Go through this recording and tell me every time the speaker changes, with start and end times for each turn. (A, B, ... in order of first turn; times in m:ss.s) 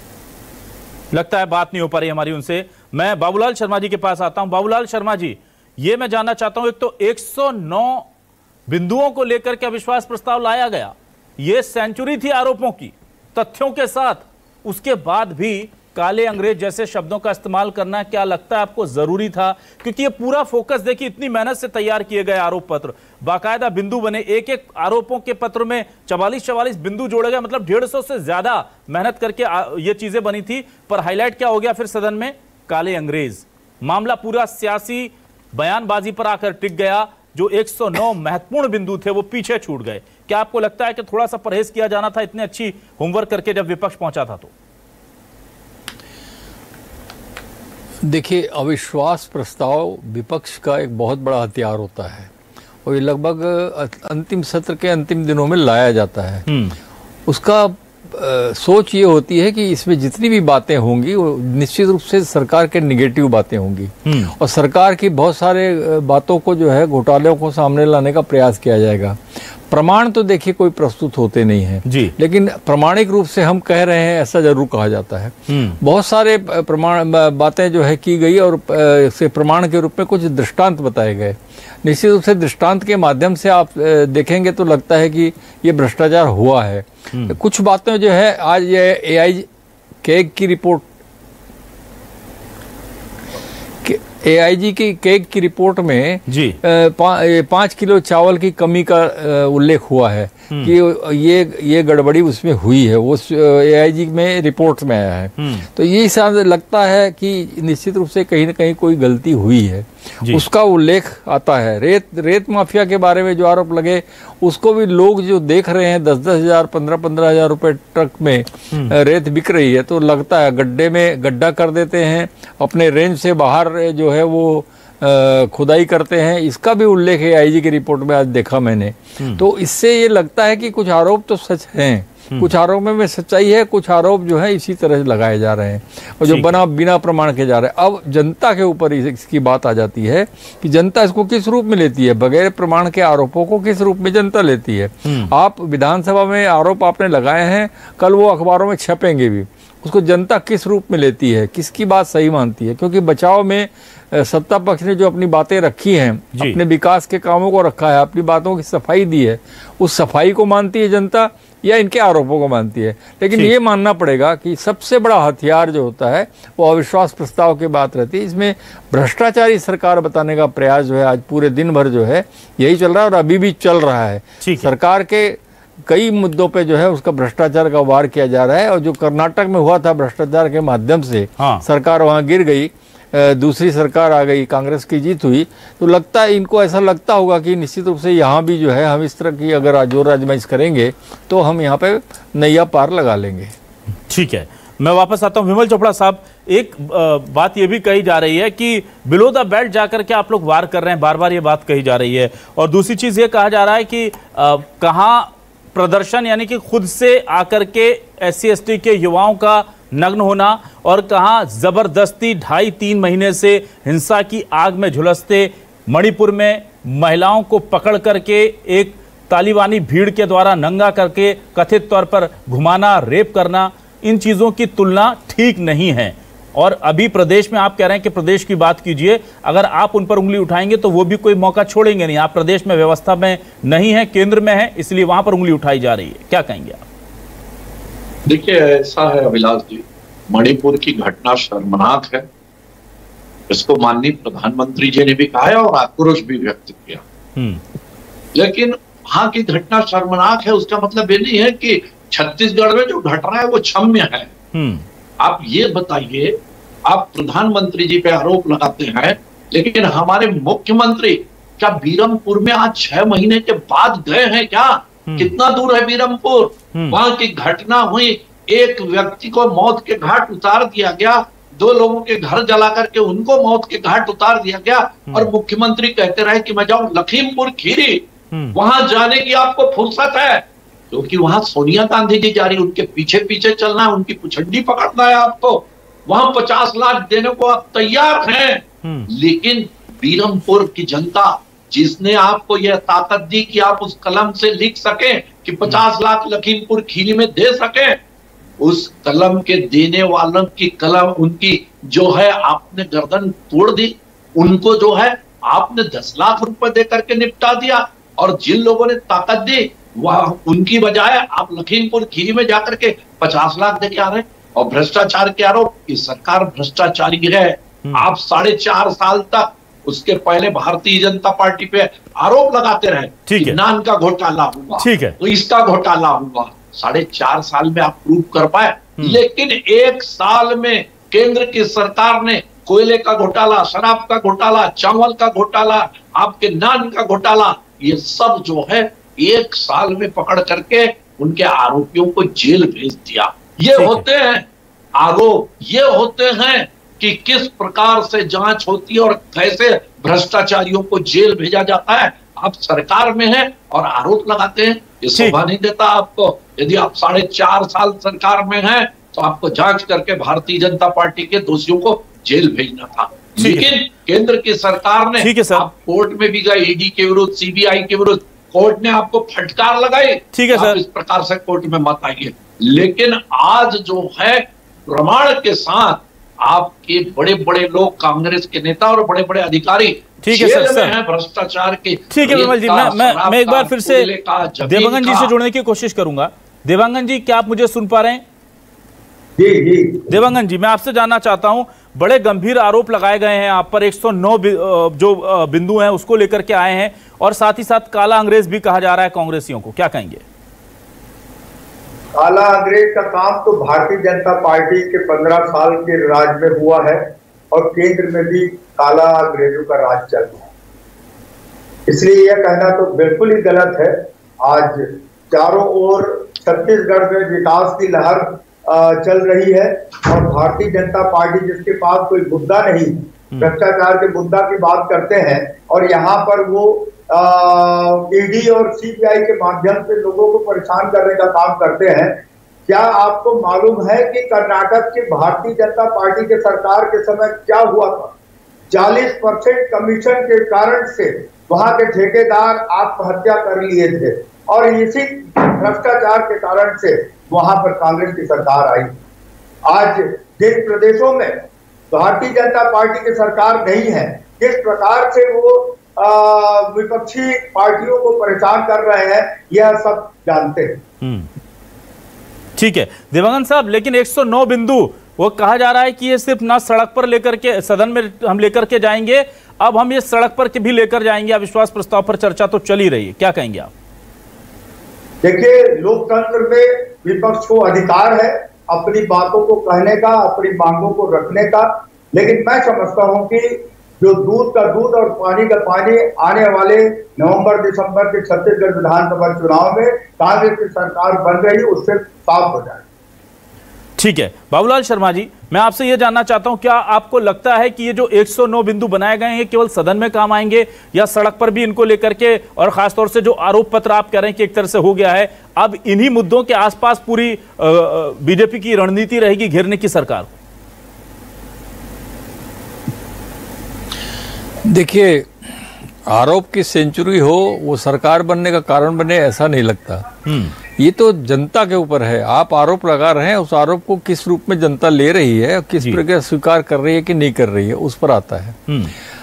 0:01.1-0:08.1 A
0:08.7-0:44.5 A
0:48.0-0:52.3 B
0:52.8-0:56.5 B
0:56.5-0:56.8 A
0:57.3-1:29.5 B
1:04.0-1:04.3 A
1:11.9-1:12.1 A
1:15.5-1:15.8 A
1:30.0-1:30.9 B
1:33.8-3:13.5 B
1:36.3-1:36.6 A
1:45.4-1:45.7 A
2:16.2-2:16.5 A
2:25.0-2:25.3 A
2:54.4-2:54.7 A
3:01.4-3:01.6 A
3:14.1-3:56.8 A
3:58.3-4:02.3 C
4:03.5-4:07.0 C
4:07.4-4:07.6 A
4:08.3-4:14.3 C
4:14.5-4:14.9 A
4:15.2-4:58.0 C
4:25.1-4:25.3 A
4:38.3-4:38.6 A
4:58.6-6:25.3 C
5:23.3-5:23.6 A
5:24.8-5:25.2 A
5:43.8-5:44.0 A
6:03.4-6:03.7 A
6:05.2-6:05.7 A
6:10.3-6:10.8 A
6:20.2-6:21.0 A
6:22.1-6:24.1 A
6:24.6-6:28.2 A
6:29.4-6:30.2 D
6:30.1-6:40.2 A
6:42.1-6:50.5 D
6:51.9-7:18.1 D
7:18.7-7:29.0 D
7:29.7-7:40.8 D
7:41.0-7:41.3 A
7:42.6-7:53.7 A
7:55.2-8:12.8 D
8:14.0-8:30.3 A
8:34.6-8:35.3 B
8:36.1-8:40.1 B
8:40.2-8:40.6 A
8:40.8-8:48.6 B
8:48.7-8:49.0 A